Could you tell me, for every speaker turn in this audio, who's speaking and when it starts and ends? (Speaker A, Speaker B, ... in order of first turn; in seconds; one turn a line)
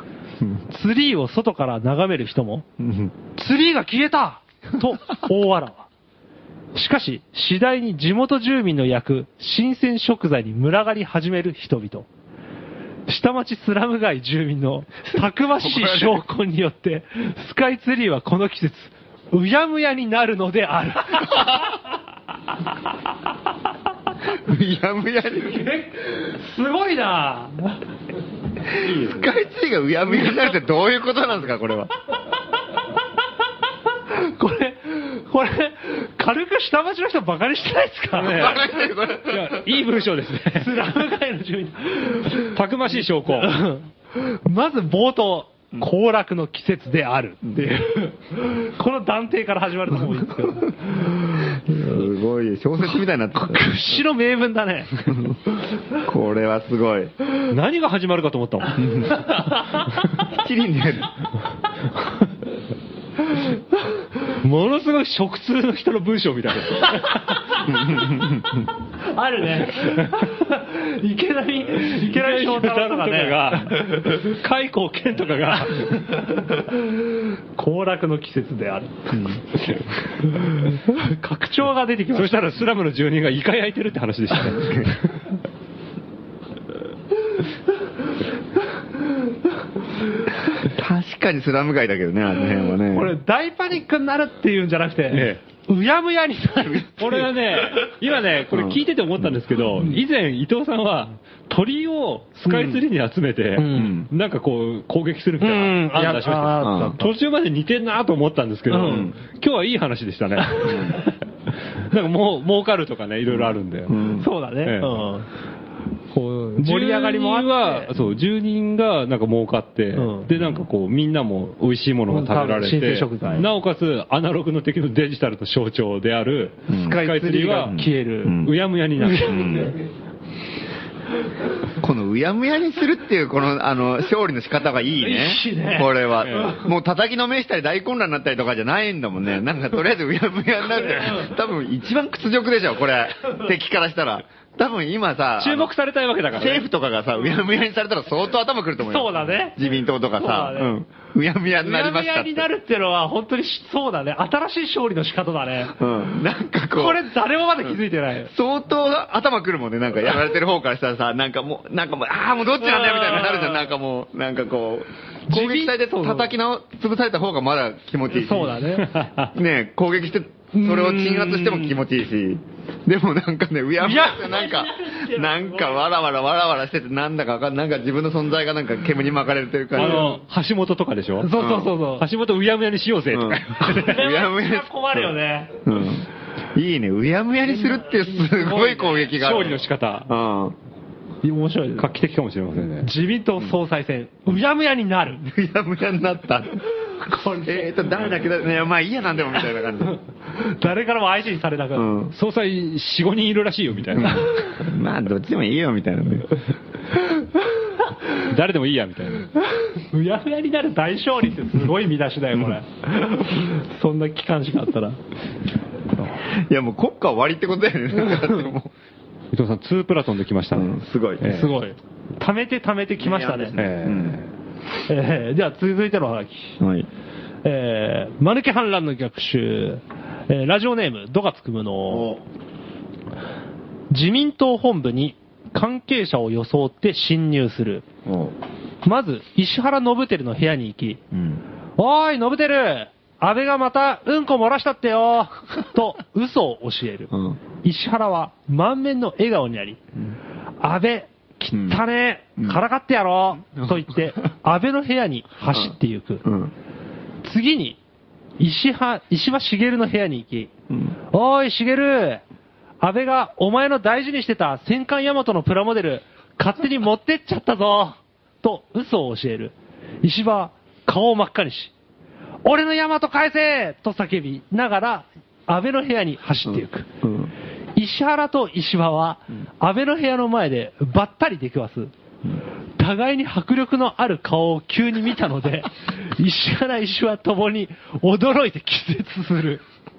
Speaker A: 0.7-2.6
Speaker B: 2.8-3.1
Speaker A: 3.4-5.9
Speaker A: 6.7-12.1
Speaker A: 13.1-21.8
Speaker B: 15.2-16.2
Speaker B: 24.3-25.6
Speaker A: 25.4-27.8
Speaker B: 28.7-31.9
Speaker C: 28.8-29.3
Speaker A: 34.1-38.6
Speaker C: 38.2-38.7
Speaker B: 38.3-39.7
Speaker C: 39.3-40.8
Speaker A: 40.5-42.6
Speaker C: 42.4-43.6
Speaker A: 43.3-51.5
Speaker B: 51.4-53.7
Speaker A: 53.4-55.3
Speaker B: 56.0-57.1
Speaker C: 57.5-59.1
Speaker B: 58.8-59.2
Speaker A: 59.1-59.8
Speaker B: 60.3-61.1
Speaker C: 64.4-67.5
Speaker B: 67.7-68.6
Speaker A: 69.1-74.0
Speaker C: 69.8-70.3
Speaker C: 71.8-76.2
Speaker A: 75.7-79.2
Speaker B: 79.1-79.4
Speaker A: 80.2-82.5
Speaker C: 82.1-85.2
Speaker B: 84.5-84.9
Speaker B: 90.5-93.1
Speaker A: 92.9-97.3
Speaker C: 95.1-95.4
Speaker B: 96.6-97.3
Speaker C: 97.0-111.2
Speaker B: 98.5-99.3
Speaker A: 102.4-102.8
Speaker A: 103.6-103.9
Speaker B: 103.7-104.1
Speaker A: 105.4-107.1
Speaker B: 106.6-107.0
Speaker A: 108.7-109.1
Speaker B: 108.8-109.1
Speaker B: 110.6-111.0
Speaker C: 111.8-114.1
Speaker B: 113.3-114.3
Speaker A: 114.2-115.3
Speaker C: 114.6-115.0
Speaker A: 116.2-117.9
Speaker C: 116.5-127.8
Speaker A: 120.0-120.3
Speaker A: 122.1-123.5
Speaker B: 126.7-127.0
Speaker A: 126.7-128.4
Speaker B: 127.6-128.6
Speaker C: 128.3-129.5
Speaker A: 129.0-129.8
Speaker B: 129.1-129.8
Speaker B: 131.8-145.7
Speaker A: 135.0-136.6
Speaker C: 136.2-136.6
Speaker A: 140.9-141.3
Speaker C: 145.4-146.7
Speaker B: 146.3-152.5
Speaker A: 148.8-150.8
Speaker A: 151.6-155.8
Speaker B: 155.8-157.0
Speaker A: 156.7-158.3
Speaker B: 158.3-168.6
Speaker A: 162.6-163.7
Speaker A: 165.3-166.3
Speaker A: 168.1-169.1
Speaker C: 168.8-169.3
Speaker B: 169.3-180.2
Speaker A: 170.5-171.8
Speaker A: 173.8-175.8
Speaker C: 179.8-181.4
Speaker A: 179.8-180.2
Speaker A: 181.2-182.1
Speaker B: 181.3-181.7
Speaker C: 182.0-184.0
Speaker B: 183.1-190.6
Speaker A: 183.6-185.6
Speaker A: 187.5-189.2
Speaker C: 189.2-190.1
Speaker A: 191.2-191.9
Speaker C: 191.8-192.9
Speaker A: 192.8-195.2
Speaker B: 195.2-196.6
Speaker A: 197.0-197.7
Speaker B: 197.3-200.0
Speaker A: 199.9-201.9
Speaker B: 201.8-202.1
Speaker C: 202.1-204.4
Speaker B: 204.0-206.3
Speaker C: 208.1-209.3
Speaker A: 209.6-215.0
Speaker B: 216.3-218.7
Speaker C: 219.3-221.6
Speaker B: 220.5-221.3
Speaker A: 221.2-223.6
Speaker B: 223.0-224.2
Speaker C: 223.6-224.3
Speaker A: 224.9-226.6
Speaker B: 226.6-226.9
Speaker A: 227.4-232.2
Speaker B: 231.9-232.2
Speaker A: 233.9-237.9
Speaker B: 238.1-238.3
Speaker A: 238.8-241.0
Speaker B: 241.1-241.4
Speaker A: 241.8-247.1
Speaker B: 247.1-247.4
Speaker A: 247.6-249.8
Speaker A: 250.6-256.2
Speaker B: 251.5-251.8
Speaker B: 256.2-256.5
Speaker A: 257.2-257.8
Speaker A: 258.4-260.5
Speaker A: 261.1-262.2
Speaker A: 262.8-271.7
Speaker A: 272.4-276.9
Speaker B: 277.0-277.3
Speaker A: 277.8-281.9
Speaker A: 282.8-289.6